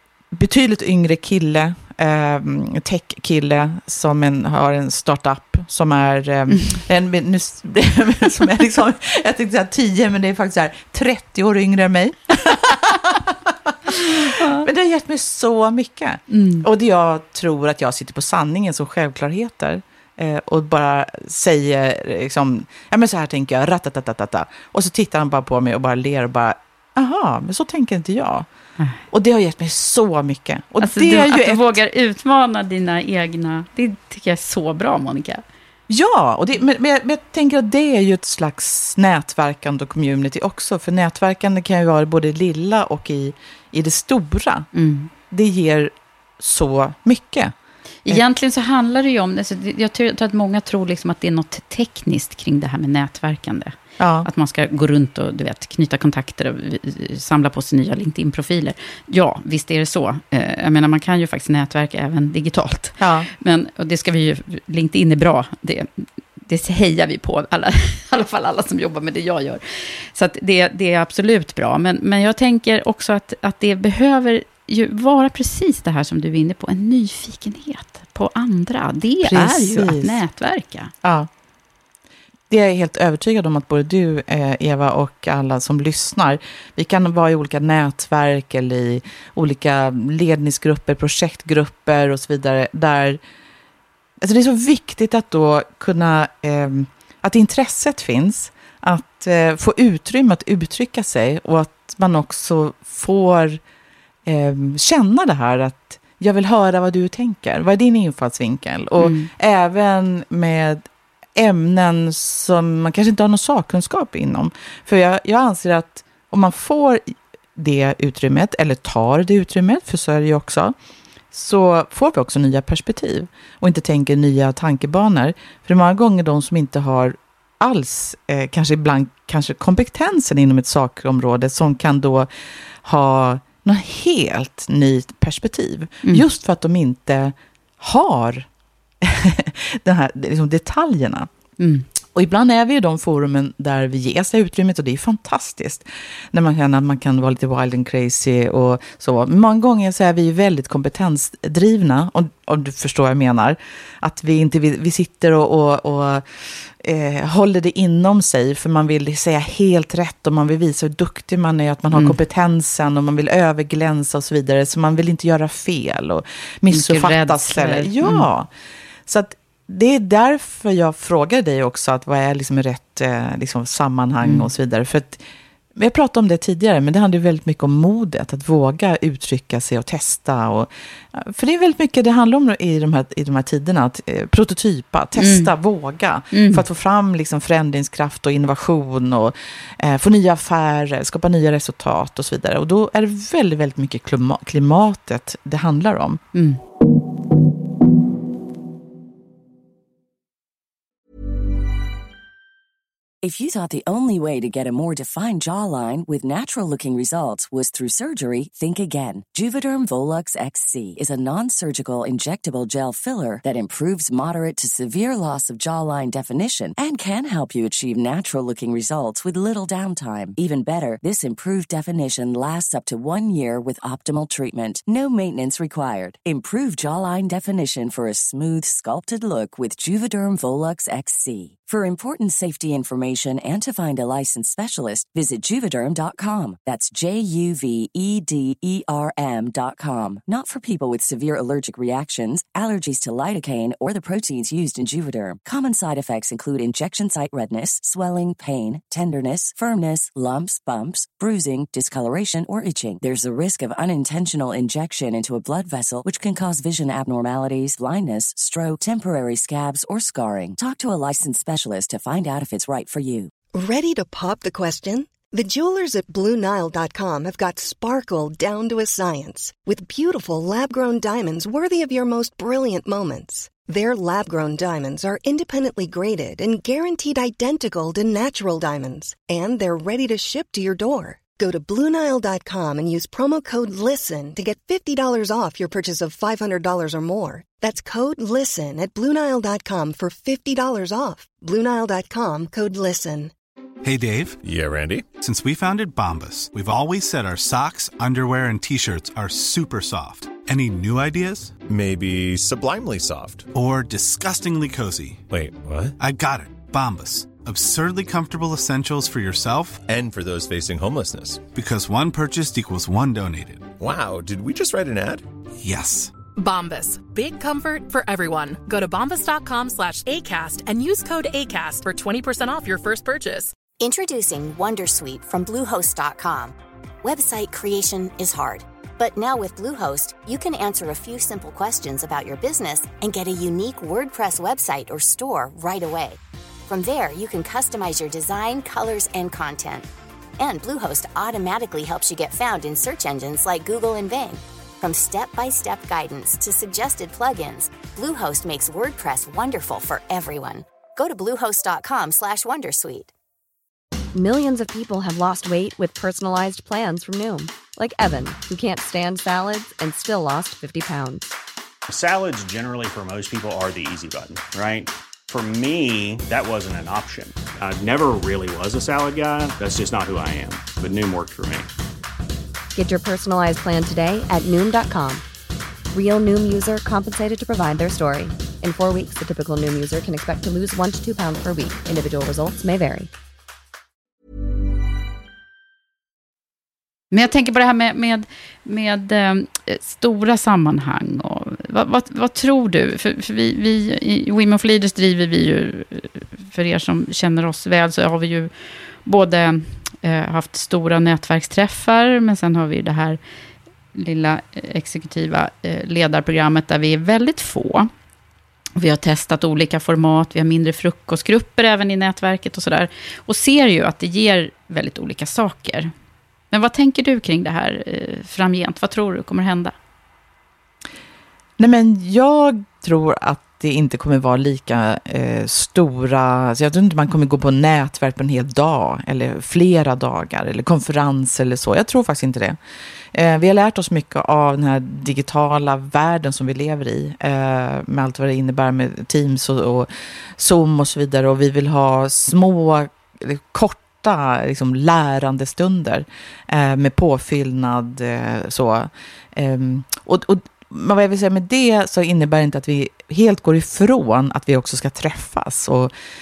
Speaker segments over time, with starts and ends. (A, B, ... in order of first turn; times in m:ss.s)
0:00.3-0:28.5 A
0:14.3-0:14.6 B
0:16.3-0:16.7 B
0:29.1-0:31.8 A
0:30.8-0:35.4 B
0:35.9-0:44.7 A
0:44.7-0:45.1 B
0:45.3-0:47.5 A
0:48.0-1:20.9 B
0:54.0-0:54.3 A
1:03.0-1:03.3 A
1:19.2-1:20.2 A
1:21.0-1:21.3 A
1:22.5-1:33.2 A
1:34.2-1:43.6 A
1:44.2-1:50.8 A
1:49.0-1:49.3 B
1:51.4-2:00.8 A
2:01.3-2:12.3 A
2:12.8-2:18.5 A
2:19.0-2:21.3 A
2:21.6-2:21.9 B
2:22.1-2:48.5 A
2:46.7-2:48.2 B
2:49.1-2:55.2 A
2:54.2-2:54.5 B
2:55.8-3:16.2 A
3:05.2-3:05.5 B
3:06.3-3:06.6 B
3:16.3-3:16.6 B
3:23.2-4:23.3 C
4:23.5-4:53.3 D
4:53.8-4:54.4 E
4:54.4-4:55.0 F
4:55.2-5:01.5 E
5:01.7-5:03.5 F
5:03.5-5:05.2 E
5:05.3-5:05.9 F
5:06.0-5:09.8 E
5:09.9-5:11.4 F
5:11.5-5:13.7 E
5:13.8-5:15.2 F
5:15.6-5:16.1 E
5:16.4-5:23.5 G
5:23.8-5:39.9 H
5:40.4-5:53.1 H
5:54.1-6:01.4 I
6:01.9-6:11.7 J
6:12.7-6:15.2 I
6:15.9-6:23.1 I
6:27.1-6:38.5 B
6:39.0-6:43.2 B
6:43.9-6:47.9 B
6:48.8-6:55.9 B
6:56.5-6:59.8 B
7:01.6-7:12.6 A
7:13.1-7:35.9 A